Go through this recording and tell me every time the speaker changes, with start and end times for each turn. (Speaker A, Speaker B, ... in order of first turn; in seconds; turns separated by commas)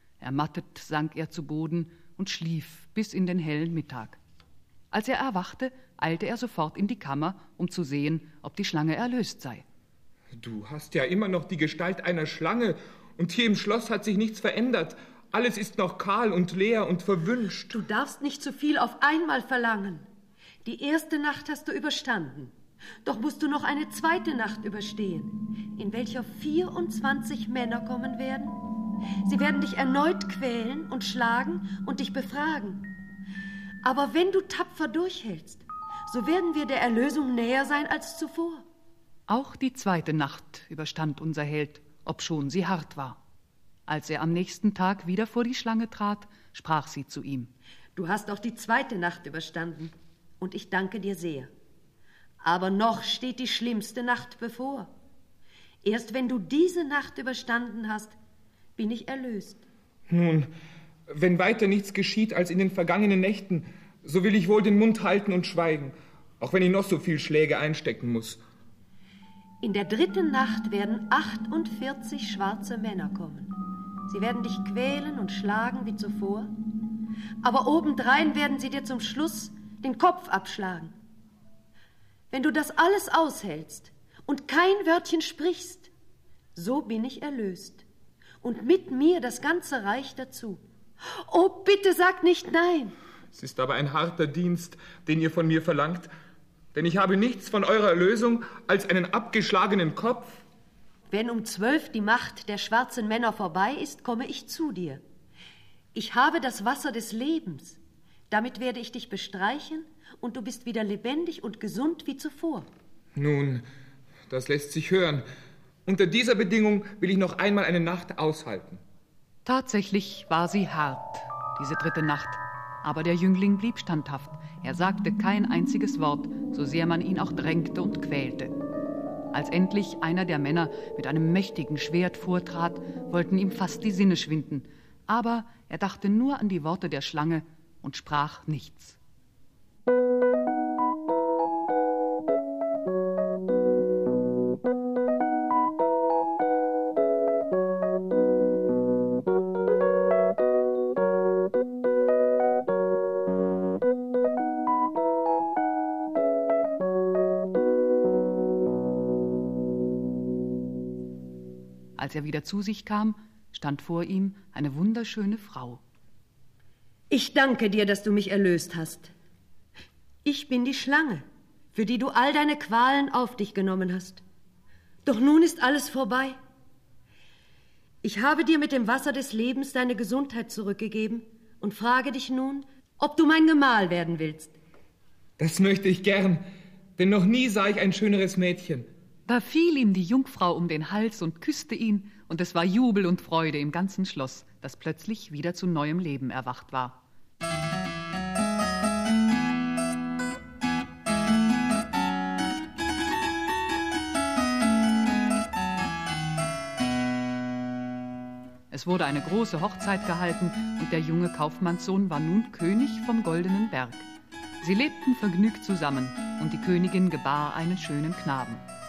Speaker A: 0.2-4.2, Speaker A: 4.9-9.6, Speaker B: 10.4-17.7, Speaker C: 17.7-20.1, Speaker C: 20.6-22.5, Speaker C: 23.1-28.6, Speaker C: 29.3-32.9, Speaker C: 33.8-38.6, Speaker A: 39.3-43.2, Speaker A: 43.9-47.5, Speaker C: 48.0-51.5, Speaker C: 52.4-54.9, Speaker C: 55.8-58.2, Speaker C: 58.8-59.6, Speaker B: 60.1-60.5, Speaker B: 61.1-68.4, Speaker C: 69.6-73.5, Speaker C: 74.1-76.5, Speaker C: 77.4-80.9, Speaker C: 82.3-85.9, Speaker C: 86.6-87.8, Speaker C: 88.4-90.6, Speaker C: 91.3-93.0, Speaker B: 93.3-96.1, Speaker B: 96.7-100.4, Speaker C: 101.1-105.0, Speaker C: 105.9-107.8, Speaker C: 108.3-112.7, Speaker B: 113.2-113.7, Speaker B: 114.3-115.3, Speaker B: 115.9-118.8, Speaker A: 119.5-128.5, Speaker A: 129.3-139.0, Speaker A: 162.0-165.8, Speaker C: 167.1-169.1, Speaker C: 170.2-174.2, Speaker C: 175.1-176.4, Speaker C: 178.0-184.5, Speaker B: 185.4-188.9, Speaker A: 189.3-197.0, Speaker A: 208.7-214.1, Speaker A: 214.6-218.7